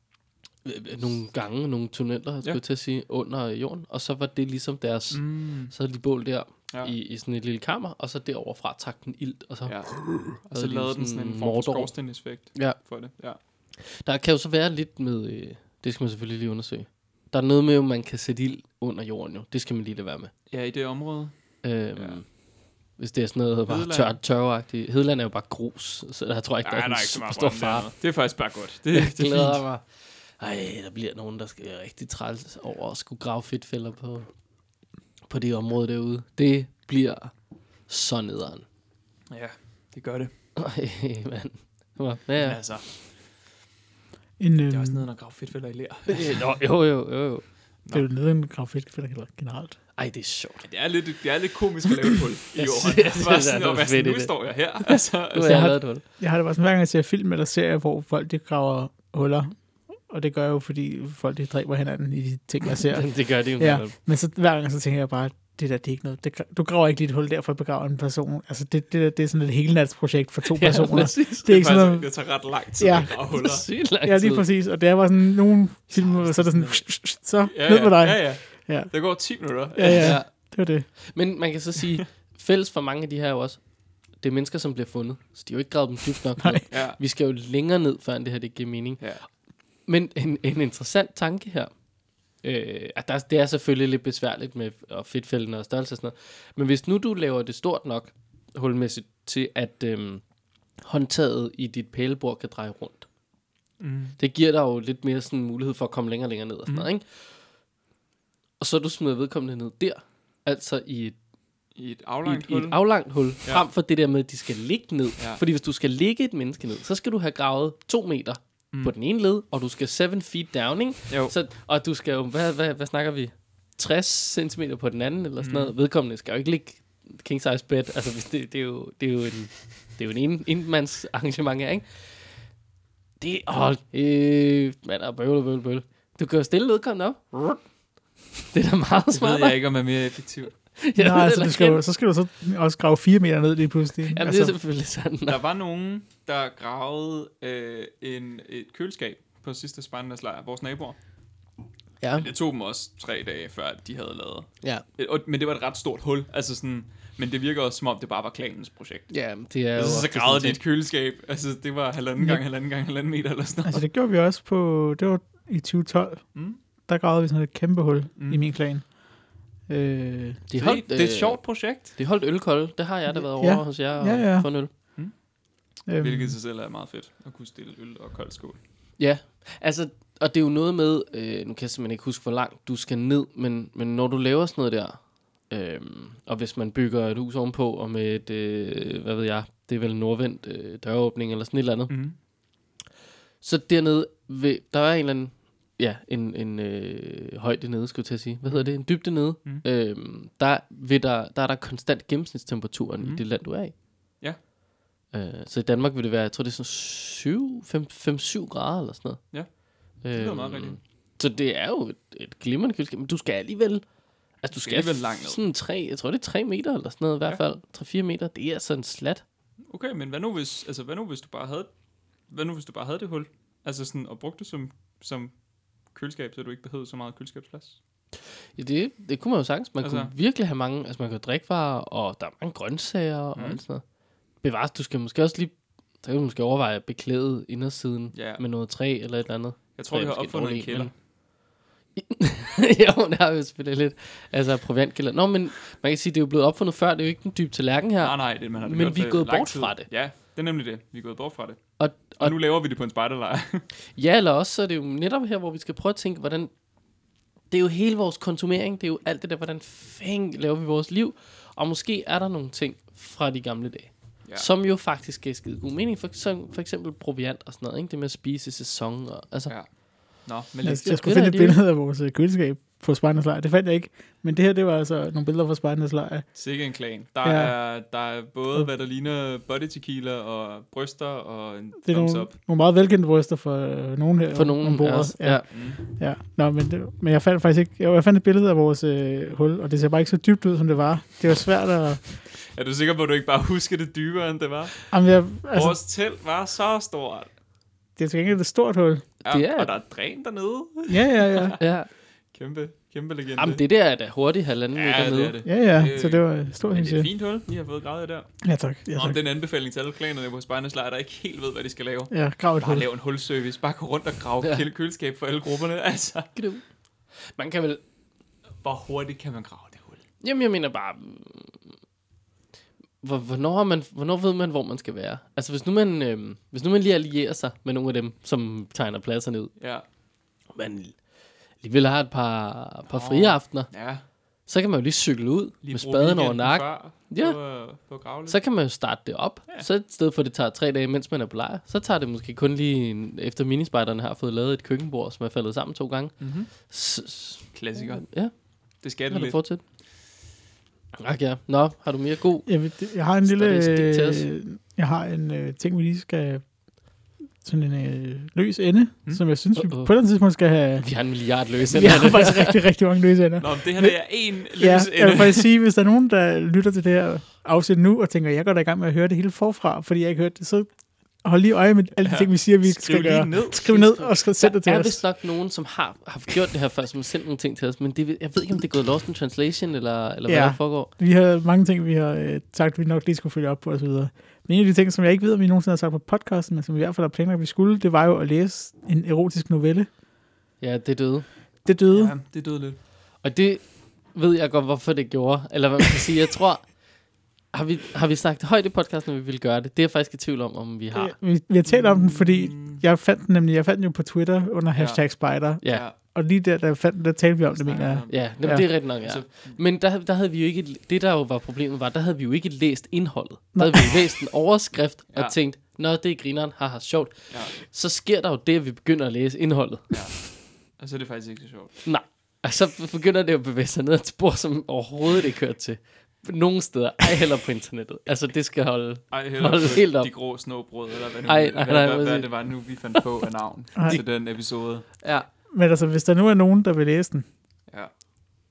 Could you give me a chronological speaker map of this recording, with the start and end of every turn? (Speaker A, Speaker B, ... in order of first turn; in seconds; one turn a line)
Speaker A: 0.6-11.9
Speaker B: 5.1-5.7
Speaker B: 9.7-13.4
Speaker A: 12.5-12.8
Speaker A: 13.8-20.3
Speaker B: 20.5-21.3
Speaker A: 21.6-22.2
Speaker A: 23.0-27.9
Speaker B: 23.7-24.1
Speaker B: 26.6-29.6
Speaker A: 28.9-34.3
Speaker A: 35.3-37.3
Speaker A: 37.9-38.6
Speaker B: 39.3-40.3
Speaker A: 40.5-42.6
Speaker B: 42.4-42.9
Speaker C: 44.4-45.0
Speaker B: 44.7-46.5
Speaker A: 46.1-47.4
Speaker C: 47.9-49.8
Speaker A: 50.0-50.7
Speaker B: 50.6-55.8
Speaker A: 52.5-56.0
Speaker C: 56.2-72.1
Speaker A: 62.9-63.9
Speaker A: 70.5-71.5
Speaker B: 71.4-73.7
Speaker C: 72.8-73.2
Speaker A: 73.3-74.5
Speaker C: 74.0-79.1
Speaker A: 76.2-76.8
Speaker B: 77.4-80.2
Speaker C: 79.7-80.9
Speaker A: 79.8-80.3
Speaker A: 80.9-83.6
Speaker A: 84.2-89.2
Speaker C: 86.4-86.6
Speaker B: 86.7-87.0
Speaker A: 89.8-91.7
Speaker A: 92.4-100.2
Speaker A: 100.8-103.0
Speaker B: 103.8-104.2
Speaker A: 104.2-107.3
Speaker A: 108.6-111.2
Speaker B: 111.8-112.8
Speaker A: 112.2-132.3
Speaker B: 125.4-125.7
Speaker A: 133.2-137.6
Speaker A: 138.5-139.6
Speaker B: 139.1-140.6
Speaker A: 140.8-141.8
Speaker C: 140.9-144.5
Speaker A: 144.1-145.4
Speaker B: 145.2-151.0
Speaker A: 152.0-152.3
Speaker B: 152.2-159.1
Speaker A: 159.1-160.6
Speaker B: 159.7-163.8
Speaker C: 163.7-166.3
Speaker C: 166.9-168.9
Speaker B: 168.2-168.4
Speaker C: 169.7-170.4
Speaker A: 170.5-174.7
Speaker B: 170.6-171.9
Speaker C: 173.2-174.5
Speaker C: 175.9-176.3
Speaker B: 176.0-178.6
Speaker A: 179.0-191.9
Speaker B: 191.9-192.1
Speaker A: 193.4-203.7
Speaker B: 198.5-199.6
Speaker A: 205.1-209.2
Speaker A: 210.0-213.8
Speaker B: 210.1-210.8
Speaker A: 214.4-219.2
Speaker B: 214.6-215.4
Speaker B: 219.7-221.7
Speaker B: 222.3-225.3
Speaker B: 225.9-227.8
Speaker A: 228.6-233.8
Speaker B: 229.8-230.1
Speaker B: 233.3-233.6
Speaker A: 234.4-240.9
Speaker B: 238.1-238.4
Speaker B: 239.8-240.9
Speaker A: 241.9-249.9
Speaker B: 248.0-253.7
Speaker A: 251.8-252.3
Speaker A: 253.9-256.5
Speaker A: 257.5-269.5
Speaker B: 270.2-271.0
Speaker C: 270.6-276.3
Speaker A: 270.8-271.6
Speaker B: 276.3-282.3
Speaker C: 277.2-277.5
Speaker C: 281.8-292.0
Speaker A: 284.3-285.4
Speaker B: 285.5-285.8
Speaker B: 292.3-297.3
Speaker C: 294.9-295.8
Speaker C: 298.0-299.1
Speaker B: 299.2-301.6
Speaker A: 299.2-299.7
Speaker C: 300.9-301.6
Speaker A: 301.6-301.9
Speaker B: 302.3-303.6
Speaker A: 303.4-305.3
Speaker B: 304.7-308.4
Speaker C: 305.4-307.1
Speaker C: 308.4-309.2
Speaker B: 308.9-316.3
Speaker C: 312.1-312.9
Speaker A: 316.3-316.6
Speaker A: 317.1-317.8
Speaker B: 318.6-320.0
Speaker A: 320.2-321.7
Speaker A: 323.0-329.5
Speaker B: 329.6-329.8
Speaker A: 330.5-330.9
Speaker A: 331.6-333.7
Speaker B: 332.9-334.0
Speaker A: 334.5-337.4
Speaker B: 335.6-338.4
Speaker A: 338.3-349.6
Speaker B: 346.2-346.5
Speaker B: 347.5-349.4
Speaker A: 351.0-354.2
Speaker C: 352.4-356.4
Speaker C: 357.4-360.9
Speaker A: 359.6-359.9
Speaker A: 360.8-362.6
Speaker C: 361.6-370.7
Speaker B: 363.4-365.5
Speaker C: 371.2-375.0
Speaker B: 372.0-374.0
Speaker A: 373.9-380.9
Speaker C: 380.3-389.9
Speaker A: 390.6-391.3
Speaker C: 391.6-392.1
Speaker B: 391.9-392.8
Speaker A: 393.2-396.8
Speaker A: 397.5-401.1
Speaker C: 400.9-408.7
Speaker B: 401.6-402.8
Speaker B: 404.7-405.9
Speaker A: 405.6-405.9
Speaker B: 407.5-409.6
Speaker A: 408.1-419.9
Speaker C: 413.5-413.8
Speaker B: 419.9-421.8
Speaker A: 421.8-430.1
Speaker B: 429.1-434.9
Speaker A: 431.2-433.0
Speaker C: 433.8-434.0
Speaker A: 435.0-435.3
Speaker C: 435.5-437.2